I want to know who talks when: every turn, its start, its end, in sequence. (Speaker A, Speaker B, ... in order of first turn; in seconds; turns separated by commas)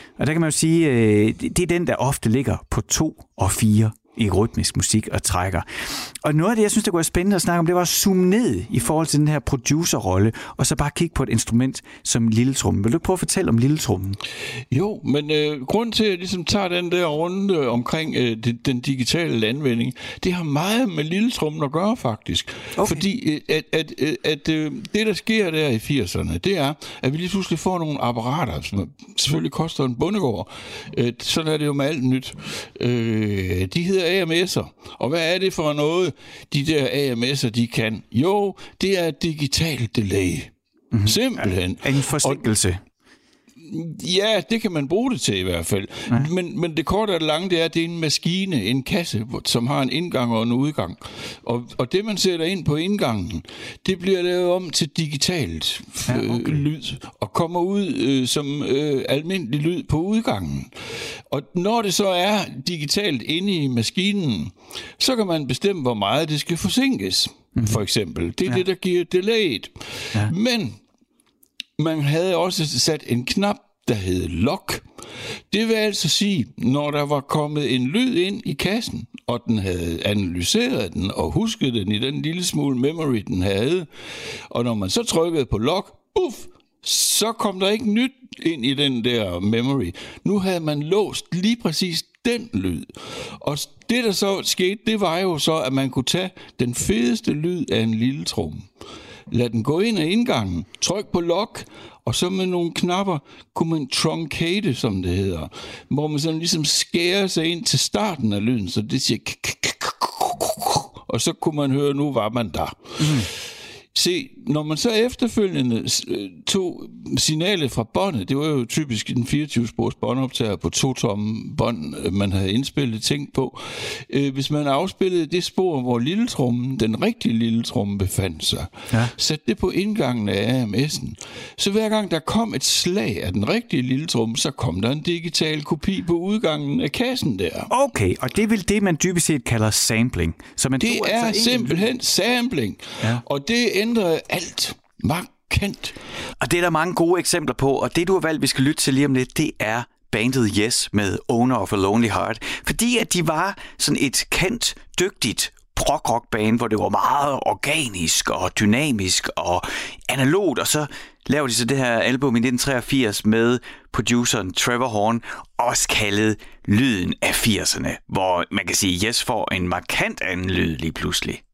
Speaker A: 0.2-14.2, Speaker B: 14.7-40.5, Speaker A: 22.8-23.1, Speaker A: 40.9-42.8, Speaker B: 41.1-42.5, Speaker B: 43.6-60.7, Speaker A: 56.1-56.6, Speaker B: 61.3-70.8, Speaker A: 67.5-67.8, Speaker B: 71.8-74.8, Speaker B: 75.5-83.9, Speaker B: 84.5-98.7, Speaker B: 99.3-113.3, Speaker A: 113.0-113.3, Speaker B: 113.9-137.7, Speaker A: 137.7-141.9, Speaker B: 140.8-146.0, Speaker A: 146.4-171.4